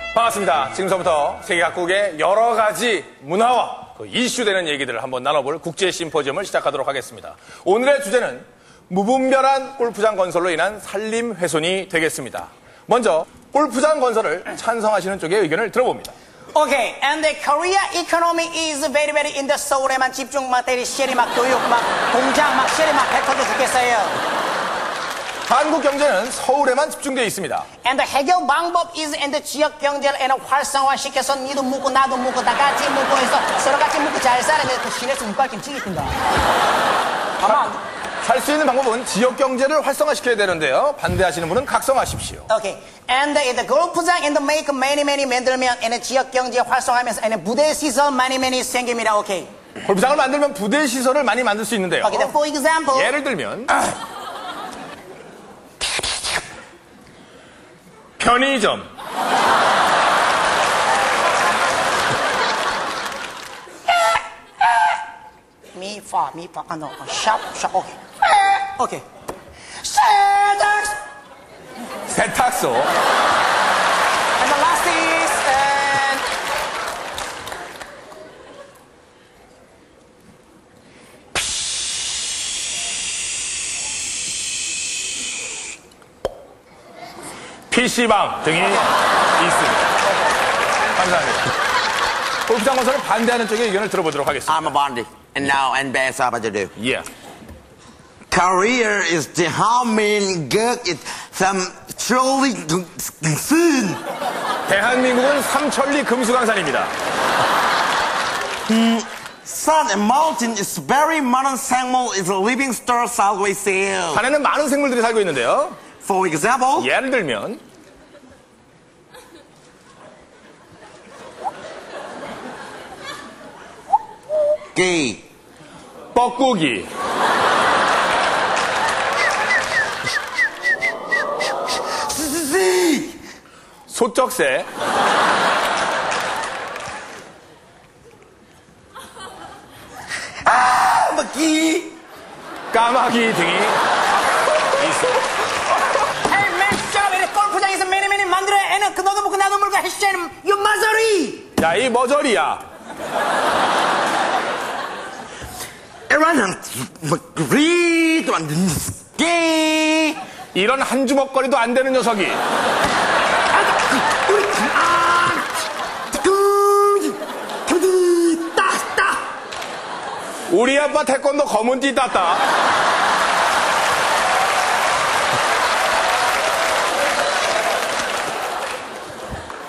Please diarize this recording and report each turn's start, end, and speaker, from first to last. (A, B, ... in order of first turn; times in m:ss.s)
0:00.1-0:16.1 A
0:16.5-0:24.2 B
0:25.5-0:27.7 A
0:27.8-0:36.2 B
0:37.4-0:37.8 B
0:38.2-0:42.5 A
0:42.5-0:49.5 B
0:49.8-0:52.3 A
0:52.0-0:53.1 B
0:52.9-0:53.8 A
0:58.2-0:58.9 A
1:04.0-1:05.0 B
1:05.7-1:09.0 B
1:09.8-1:11.0 B
1:12.1-1:12.9 A
1:14.4-1:16.2 B
1:27.7-1:28.9 A
1:29.4-1:29.8 A
1:30.9-1:31.5 A
1:32.5-1:34.7 A
1:34.5-1:36.7 C
1:36.8-1:37.1 A
1:38.3-1:44.0 C
1:44.7-1:46.9 A
1:48.7-1:54.2 C
1:54.1-1:55.8 A
1:56.0-1:56.9 C
1:56.8-1:57.6 A
2:04.7-2:05.2 C
2:06.1-2:06.9 A
2:12.1-2:13.2 C
2:13.9-2:14.7 A
2:20.5-2:21.9 C
2:22.7-2:23.8 A
2:24.7-2:25.2 A
2:26.1-2:31.5 B
2:31.6-2:32.6 A
2:36.1-2:40.2 C
2:40.5-2:42.4 A
2:43.5-2:45.5 C
2:46.1-2:49.2 C
2:50.5-2:52.4 A